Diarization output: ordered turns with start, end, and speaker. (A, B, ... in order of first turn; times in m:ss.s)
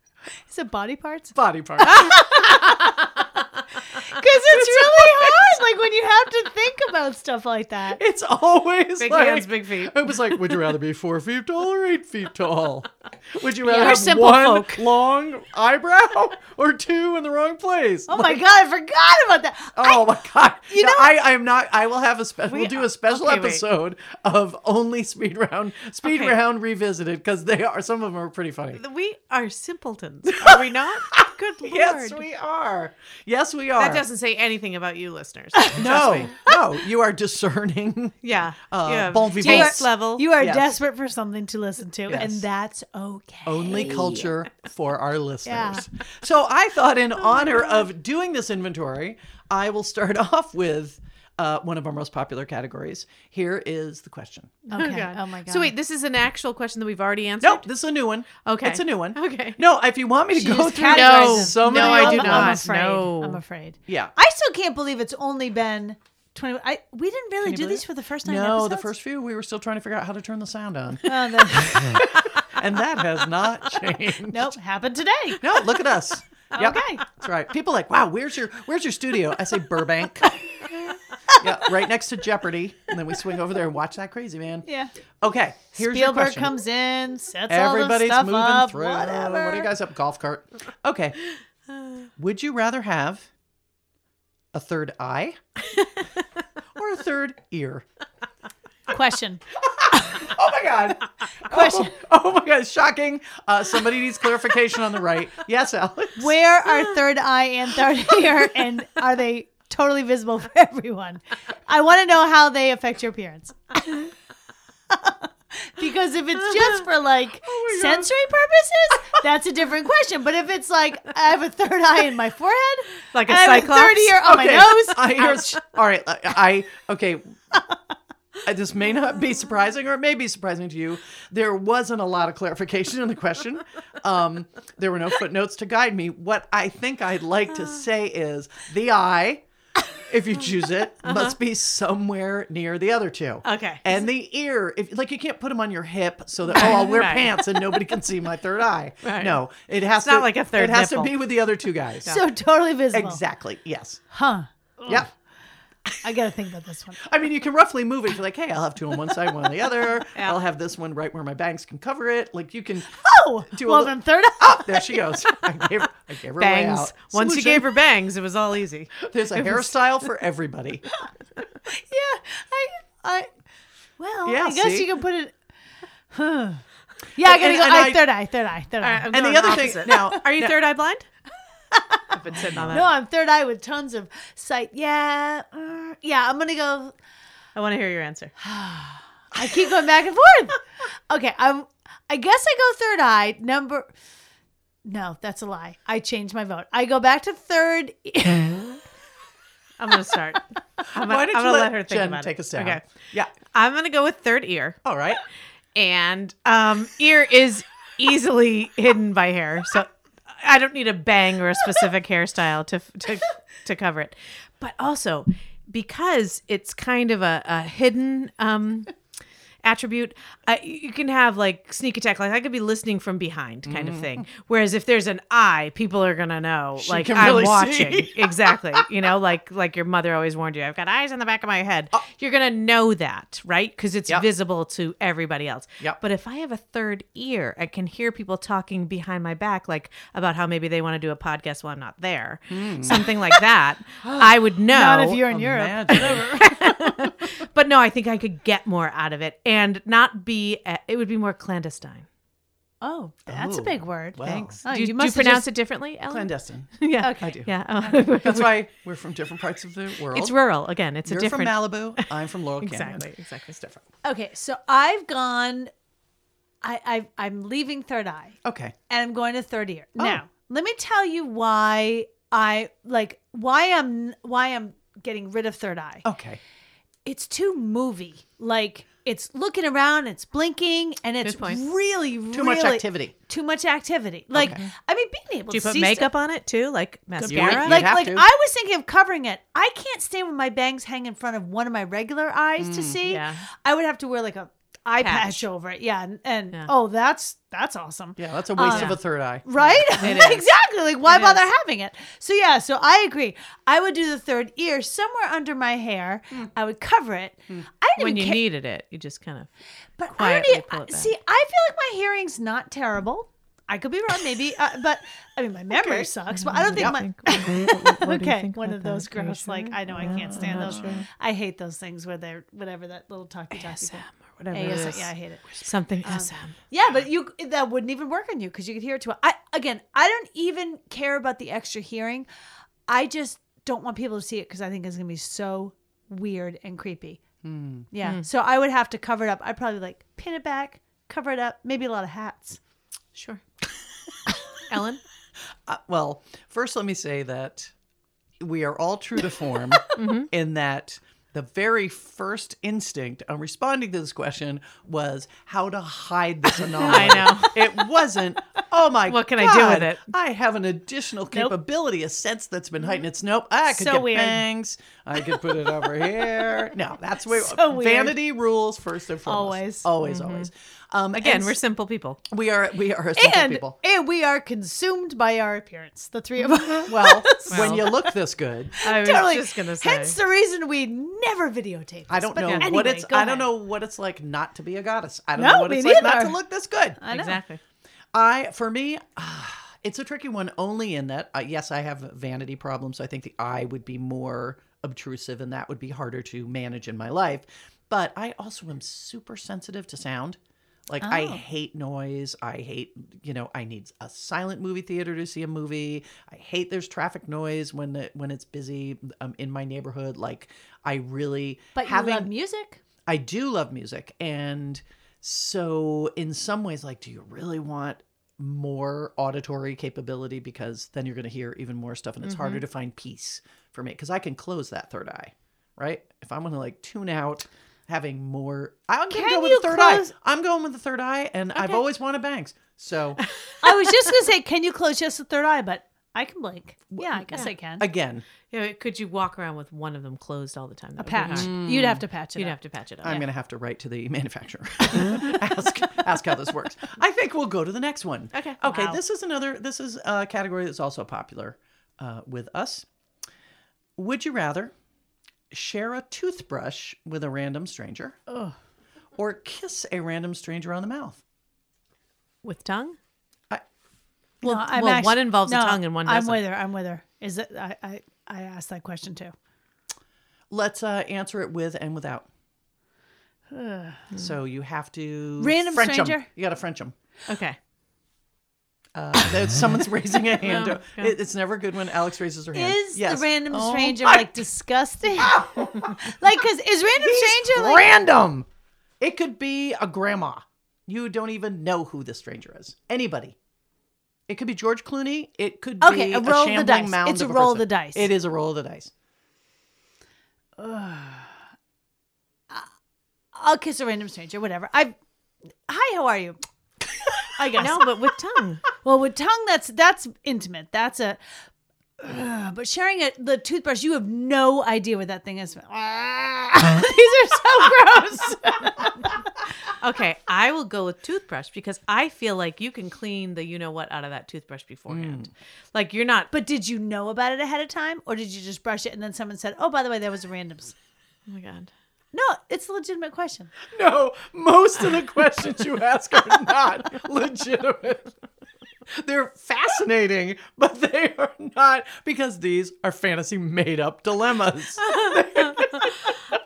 0:00.5-0:02.9 A
0:01.3-0:03.0 B
0:03.9-0:08.0 A
0:04.5-0:05.6 B
0:07.9-0:18.4 B
0:09.0-0:10.6 C
0:13.6-0:14.9 C
0:18.1-0:20.1 A
0:19.7-0:28.8 B
0:20.7-0:21.1 A
0:22.5-0:23.6 C
0:26.0-0:26.4 C
0:28.8-0:32.2 C
0:30.3-0:34.0 B
0:33.8-0:36.3 C
0:35.5-0:35.9 A
0:35.8-0:40.7 B
0:38.2-0:40.3 C
0:39.4-0:44.3 A
0:42.1-0:42.4 B
0:43.4-0:54.6 B
0:45.4-0:45.8 A
0:54.7-0:55.7 A
0:54.7-0:57.6 C
0:57.4-1:02.6 B
0:58.4-0:59.6 C
1:00.3-1:08.9 A
1:00.8-1:03.4 C
1:03.9-1:04.1 B
1:07.4-1:14.5 B
1:11.0-1:12.0 A
1:14.3-1:15.6 A
1:15.4-1:20.4 B
1:16.5-1:17.0 A
1:21.4-1:24.6 B
1:24.6-1:24.9 A
1:25.2-1:26.5 B
1:25.7-1:29.7 A
1:27.5-1:31.2 B
1:32.2-1:33.3 B
1:34.5-1:35.4 B
1:36.7-1:37.8 B
1:38.9-1:39.4 A
1:39.6-1:46.3 B
1:39.9-1:40.2 A
1:41.5-1:41.9 A
1:46.2-1:54.1 A
1:54.9-2:05.5 A
1:57.4-1:58.1 B
2:03.1-2:04.2 C
2:04.2-2:07.3 B
2:08.4-2:19.4 B
2:20.1-2:32.1 B
2:21.0-2:21.3 C
2:23.4-2:23.9 C
2:26.6-2:27.4 C
2:29.0-2:29.4 C
2:30.0-2:31.1 C
2:32.0-2:33.2 A
2:32.9-2:34.0 B
2:34.1-2:35.1 A
2:36.0-2:37.0 A
2:37.0-2:47.7 B
2:43.0-2:45.0 A
2:46.4-2:49.7 C
2:49.0-2:50.8 B
2:51.6-2:53.3 A
2:54.0-2:55.3 A
2:54.2-2:54.9 B
2:56.1-2:56.6 A
2:57.1-2:59.6 A
2:57.2-2:58.0 B
2:58.8-3:01.1 C
2:59.1-3:00.6 B
3:01.7-3:06.9 A
3:02.1-3:02.9 C
3:02.3-3:02.8 B
3:07.5-3:08.3 C
3:08.4-3:13.9 A
3:14.8-3:18.8 A
3:19.8-3:22.9 C
3:20.9-3:23.3 B
3:23.5-3:24.8 C
3:24.8-3:25.2 B
3:25.7-3:38.9 C
3:39.6-4:05.2 C
3:43.6-3:44.3 B
3:46.8-3:48.8 B
4:02.5-4:03.2 B
4:04.0-4:04.3 B
4:04.7-4:06.6 A
4:05.2-4:06.5 B
4:06.0-4:12.0 C
4:12.8-4:15.5 A
4:13.3-4:14.6 B
4:14.6-4:18.6 C
4:16.1-4:17.5 B
4:17.0-4:17.4 A
4:18.1-4:20.3 B
4:20.1-4:22.1 C
4:21.0-4:23.8 B
4:22.6-4:23.6 C
4:24.0-4:25.7 A
4:26.6-4:28.4 A
4:28.4-4:28.8 B
4:28.9-4:36.0 A
4:36.0-4:36.4 B
4:37.0-4:46.1 A
4:41.2-4:41.6 C
4:42.3-4:43.1 B
4:44.3-4:44.7 B
4:45.5-4:47.8 C
4:47.2-5:08.4 A
4:47.3-4:48.2 B
4:52.6-4:53.0 B
4:53.0-4:53.4 C
4:55.0-4:55.4 C
4:58.2-5:00.2 B
4:58.6-4:59.0 C
5:00.0-5:00.5 C
5:01.0-5:01.4 C
5:08.0-5:09.5 C
5:10.0-5:32.3 A
5:10.1-5:11.1 C
5:15.8-5:16.1 B
5:16.3-5:21.0 C
5:16.7-5:17.0 B
5:20.0-5:21.0 B
5:23.6-5:26.5 C
5:32.9-5:37.2 A
5:37.4-5:37.9 B
5:37.9-5:42.6 A
5:43.1-5:43.4 C
5:44.6-5:45.0 C
5:45.7-5:47.7 B
5:48.4-6:11.6 B
5:49.9-5:50.3 C
5:56.8-5:57.7 C
5:59.0-6:00.0 C
6:03.7-6:04.4 A
6:05.3-6:06.7 A
6:07.3-6:08.2 A
6:09.2-6:09.9 A
6:10.0-6:10.5 C
6:11.1-6:12.2 C
6:12.3-6:13.8 B
6:13.2-6:18.0 A
6:16.9-6:18.8 B
6:17.5-6:17.9 C
6:18.8-6:20.2 C
6:18.8-6:23.5 A
6:22.1-6:27.0 B
6:22.4-6:22.7 C
6:25.4-6:26.4 A
6:27.0-6:27.4 A
6:27.1-6:27.6 C
6:28.1-6:52.3 B
6:41.0-6:41.4 A
6:51.7-6:52.8 A
6:53.0-7:13.2 B
7:02.2-7:02.6 C
7:09.1-7:10.1 A
7:13.6-7:17.9 A
7:16.9-7:18.2 B
7:18.5-7:21.7 C
7:21.0-7:22.6 A
7:21.3-7:22.0 B
7:22.3-7:23.2 C
7:23.0-7:32.8 B
7:28.3-7:28.6 C
7:28.6-7:29.0 A
7:34.0-7:34.7 B
7:35.5-7:38.2 B
7:38.3-7:38.5 A
7:39.2-7:41.2 B
7:42.4-7:43.0 C
7:44.4-7:49.3 A
7:44.4-7:46.4 C
7:50.5-7:52.3 B
7:53.5-7:54.1 A
7:54.1-7:56.9 B
7:55.4-7:56.3 A
7:57.3-7:57.6 C
7:58.9-8:04.3 B
8:00.4-8:01.1 C
8:02.5-8:07.9 A
8:05.2-8:06.0 B
8:06.9-8:08.5 B
8:09.0-8:13.4 B
8:14.3-8:18.9 B
8:15.8-8:18.1 A
8:20.6-8:21.4 A
8:23.3-8:25.0 A
8:25.7-8:26.4 A
8:27.2-8:27.8 A
8:27.6-8:28.6 C
8:28.8-8:31.2 A
8:32.0-8:39.2 A
8:39.8-8:46.3 C
8:44.9-8:45.3 B
8:46.3-8:50.7 A
8:51.3-8:51.7 C
8:52.1-8:53.5 A
8:53.7-8:58.1 B
8:58.9-9:06.1 B
9:04.8-9:06.1 C